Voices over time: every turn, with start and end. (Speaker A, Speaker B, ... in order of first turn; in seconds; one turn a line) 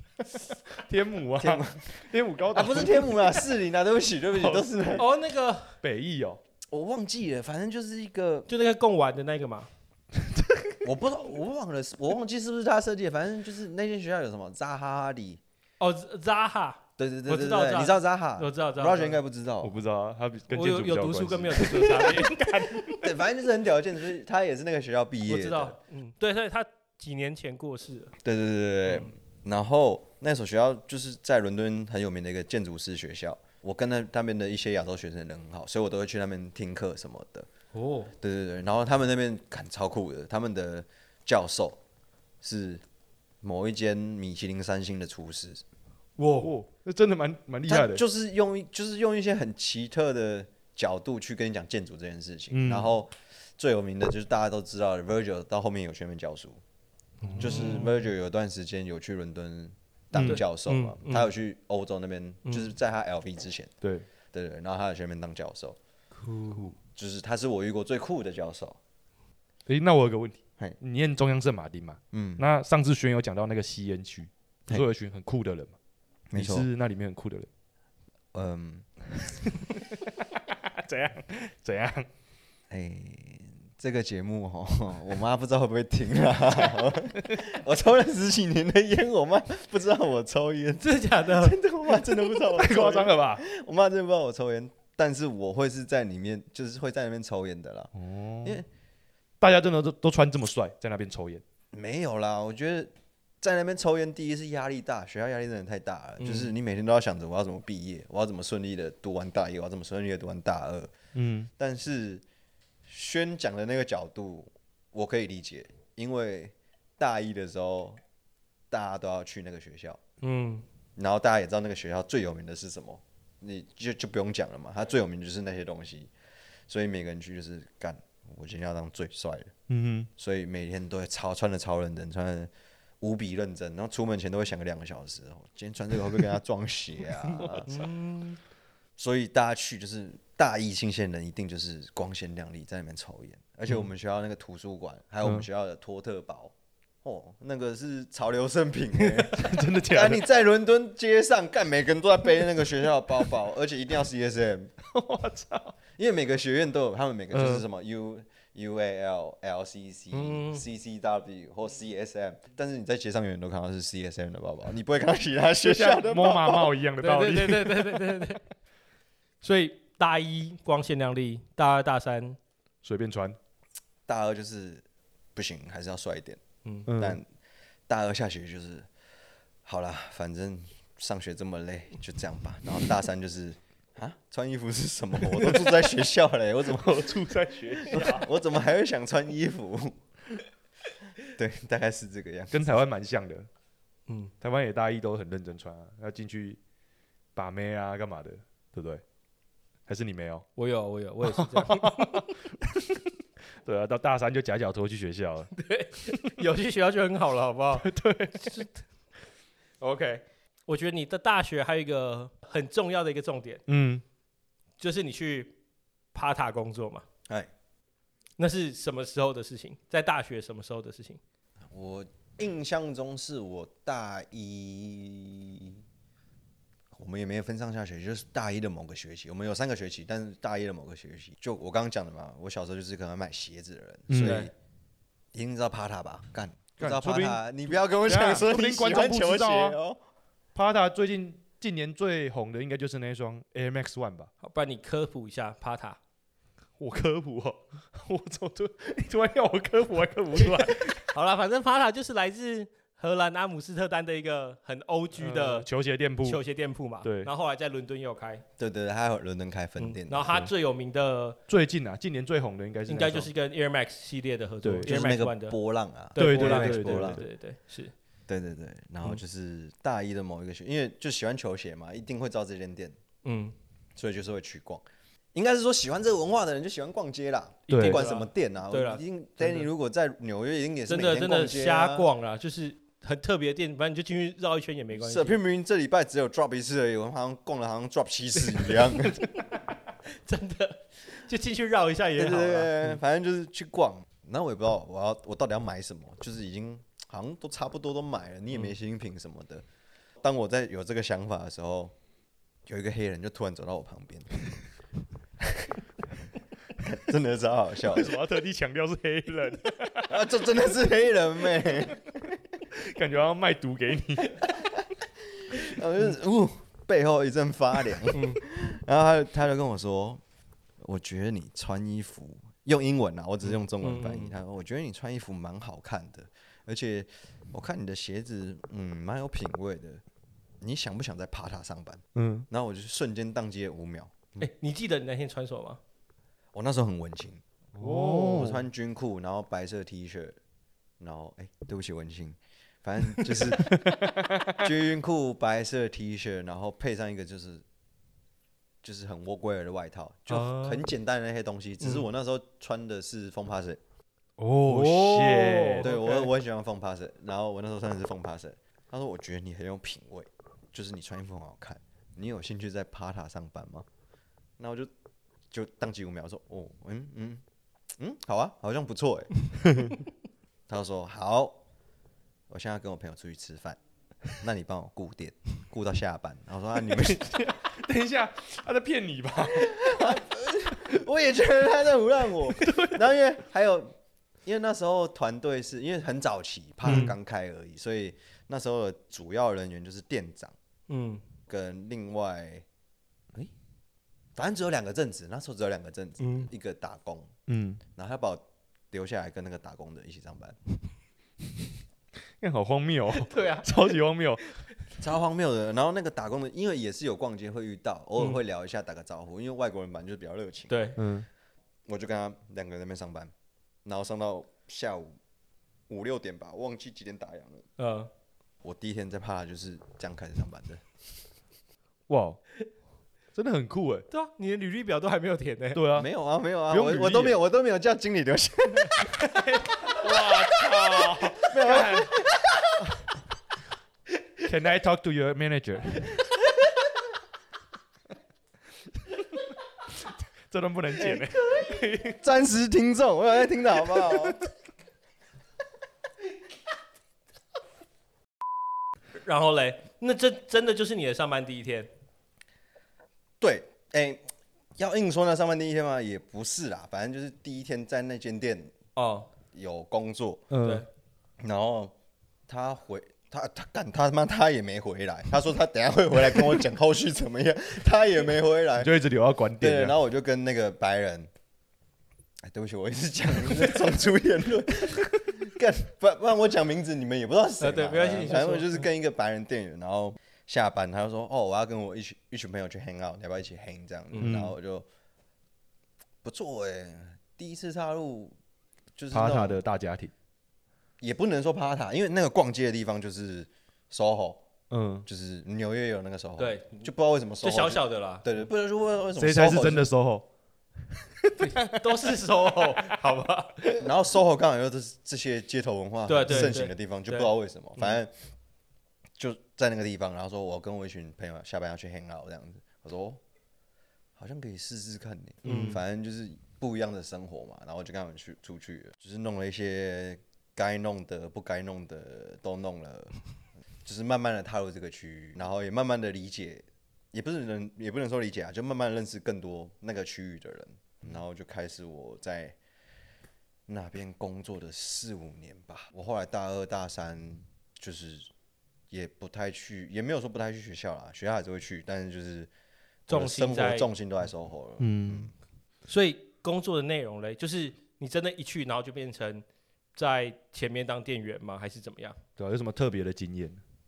Speaker A: 0.8-3.4
Speaker B: 1.4-2.0
Speaker B: 2.5-5.1
Speaker A: 4.3-5.0
Speaker C: 5.0-5.8
Speaker A: 5.8-6.4
Speaker B: 6.7-8.5
Speaker C: 8.5-9.7
Speaker B: 10.8-15.4
Speaker C: 15.8-19.2
Speaker B: 17.0-19.8
Speaker A: 19.6-23.0
Speaker C: 20.5-23.0
Speaker B: 23.0-25.8
Speaker C: 25.3-28.1
Speaker B: 28.2-37.5
Speaker C: 37.7-38.1
Speaker B: 38.2-41.8
Speaker B: 42.4-42.8
Speaker B: 43.4-45.6
Speaker C: 46.2-46.5
Speaker A: 46.4-48.0
Speaker B: 47.7-56.6
Speaker A: 52.5-52.9
Speaker A: 57.2-57.9
Speaker C: 57.2-57.9
Speaker B: 57.4-63.7
Speaker A: 60.1-60.5
Speaker C: 60.2-61.3
Speaker C: 62.5-62.7
Speaker B: 64.3-65.8
Speaker C: 66.2-66.7
Speaker B: 67.0-68.8
Speaker A: 69.7-75.8
Speaker B: 72.1-72.5
Speaker B: 76.3-76.7
Speaker A: 76.3-77.5
Speaker B: 78.3-78.9
Speaker A: 79.4-82.1
Speaker B: 82.7-97.9
Speaker C: 90.8-91.6
Speaker A: 92.4-93.4
Speaker A: 98.0-98.6
Speaker A: 99.4-101.4
Speaker B: 101.7-110.9
Speaker C: 106.2-106.5
Speaker A: 111.2-111.5
Speaker B: 111.6-112.2
Speaker B: 112.9-118.0
Speaker B: 118.7-120.0
Speaker C: 120.2-120.7
Speaker B: 121.0-126.1
Speaker B: 126.7-129.5
Speaker A: 129.7-130.1
Speaker B: 130.2-137.7
Speaker C: 137.7-138.4
Speaker B: 139.0-154.7
Speaker A: 149.3-150.2
Speaker A: 154.9-155.7
Speaker B: 156.0-166.8
Speaker A: 157.3-157.7
Speaker C: 160.1-160.6
Speaker A: 165.6-168.3
Speaker C: 167.0-168.4
Speaker C: 169.4-172.4
Speaker A: 172.8-173.4
Speaker B: 174.1-176.4
Speaker A: 176.9-177.2
Speaker B: 177.0-177.3
Speaker B: 177.9-178.9
Speaker B: 179.7-187.2
Speaker A: 186.7-188.3
Speaker B: 187.8-190.0
Speaker B: 191.2-192.8
Speaker A: 192.5-193.5
Speaker C: 194.1-194.3
Speaker A: 194.4-196.6
Speaker A: 197.4-199.0
Speaker A: 199.9-200.5
Speaker C: 200.6-202.3
Speaker A: 201.2-203.0
Speaker A: 203.7-205.5
Speaker C: 205.6-207.9
Speaker A: 207.8-208.7
Speaker C: 208.4-208.7
Speaker C: 209.8-213.6
Speaker A: 213.7-214.0
Speaker C: 214.8-215.6
Speaker C: 216.1-217.1
Speaker C: 218.4-221.2
Speaker B: 221.7-225.8
Speaker B: 226.9-234.5
Speaker A: 234.1-234.5
Speaker B: 235.3-240.0
Speaker A: 236.8-239.8
Speaker A: 240.6-244.3
Speaker C: 244.4-246.0
Speaker A: 246.8-251.0
Speaker C: 250.5-255.7
Speaker A: 255.2-256.4
Speaker C: 256.2-258.4
Speaker A: 257.0-257.3
Speaker B: 258.6-260.5
Speaker C: 259.8-261.4
Speaker A: 261.5-263.3
Speaker C: 262.9-265.6
Speaker A: 264.6-264.9
Speaker B: 264.8-267.2
Speaker C: 266.1-267.9
Speaker A: 266.2-267.2
Speaker B: 268.3-273.0
Speaker C: 273.2-273.6
Speaker B: 274.0-282.1
Speaker A: 277.7-278.0
Speaker C: 277.7-279.7
Speaker C: 280.9-285.4
Speaker B: 285.0-289.3
Speaker C: 288.4-289.4
Speaker C: 290.1-292.9
Speaker B: 292.2-299.6
Speaker B: 300.2-301.9
Speaker B: 302.7-304.3
Speaker B: 305.4-305.7
Speaker B: 306.8-308.2
Speaker A: 307.9-310.2
Speaker B: 310.1-312.4
Speaker A: 312.7-314.5
Speaker B: 315.3-320.2
Speaker C: 318.1-318.4
Speaker B: 320.8-330.0
Speaker C: 323.8-324.3
Speaker B: 330.6-334.5
Speaker A: 332.1-332.5
Speaker C: 334.4-335.8
Speaker B: 336.5-337.4
Speaker A: 337.8-338.6
Speaker B: 338.1-340.4
Speaker B: 341.0-344.0
Speaker A: 343.6-344.7
Speaker B: 344.6-347.6
Speaker B: 348.8-353.8
Speaker C: 351.8-352.1
Speaker A: 354.4-355.9
Speaker C: 354.6-356.3
Speaker B: 355.8-363.9
Speaker B: 364.6-364.9
Speaker B: 365.5-367.4
Speaker B: 368.0-369.9
Speaker B: 370.7-371.6
Speaker B: 372.5-373.8
Speaker B: 374.3-377.5
Speaker A: 376.9-380.2
Speaker B: 379.5-390.5
Speaker A: 382.6-383.0
Speaker A: 386.8-387.2
Speaker C: 390.9-391.2
Speaker B: 391.5-392.6
Speaker B: 394.4-397.3
Speaker C: 396.2-396.5
Speaker A: 397.5-397.8
Speaker B: 398.0-400.6
Speaker A: 402.4-404.5
Speaker C: 403.2-404.0
Speaker B: 405.0-410.8
Speaker C: 410.7-411.0
Speaker A: 411.0-411.3
Speaker B: 411.9-413.3
Speaker B: 413.9-415.2
Speaker B: 415.9-417.7
Speaker C: 417.8-418.1
Speaker B: 418.6-420.8
Speaker A: 422.1-422.4
Speaker A: 423.4-424.1
Speaker C: 424.1-425.8
Speaker A: 425.7-426.1
Speaker B: 425.9-429.3
Speaker A: 426.7-427.4
Speaker A: 429.8-432.1
Speaker B: 431.4-432.4
Speaker A: 434.4-436.2
Speaker A: 440.5-442.2
Speaker B: 442.1-444.4
Speaker C: 449.2-451.9
Speaker B: 453.4-454.2
Speaker B: 454.8-458.7
Speaker C: 459.0-459.3
Speaker B: 459.5-460.5
Speaker A: 460.5-460.9
Speaker C: 460.6-460.9
Speaker B: 461.4-461.9
Speaker B: 462.5-468.9
Speaker A: 468.8-470.0
Speaker B: 469.6-471.3
Speaker B: 472.4-484.9
Speaker C: 477.6-478.9
Speaker A: 484.2-484.5
Speaker B: 486.2-488.4
Speaker B: 489.0-489.6
Speaker A: 489.1-490.1
Speaker B: 491.0-494.4
Speaker A: 494.7-495.1
Speaker B: 495.1-499.9
Speaker C: 496.4-496.9
Speaker C: 497.4-498.2
Speaker A: 499.2-500.3
Speaker A: 501.2-502.1
Speaker C: 501.4-503.8
Speaker B: 503.8-508.1
Speaker C: 506.1-508.0
Speaker A: 506.3-506.6
Speaker B: 509.2-513.2
Speaker B: 514.2-523.1
Speaker C: 515.5-515.8
Speaker B: 523.9-532.6
Speaker B: 533.7-538.3
Speaker B: 538.9-542.5
Speaker B: 543.1-545.3
Speaker C: 543.1-543.9
Speaker A: 544.8-545.3
Speaker C: 545.9-552.2
Speaker A: 552.4-553.6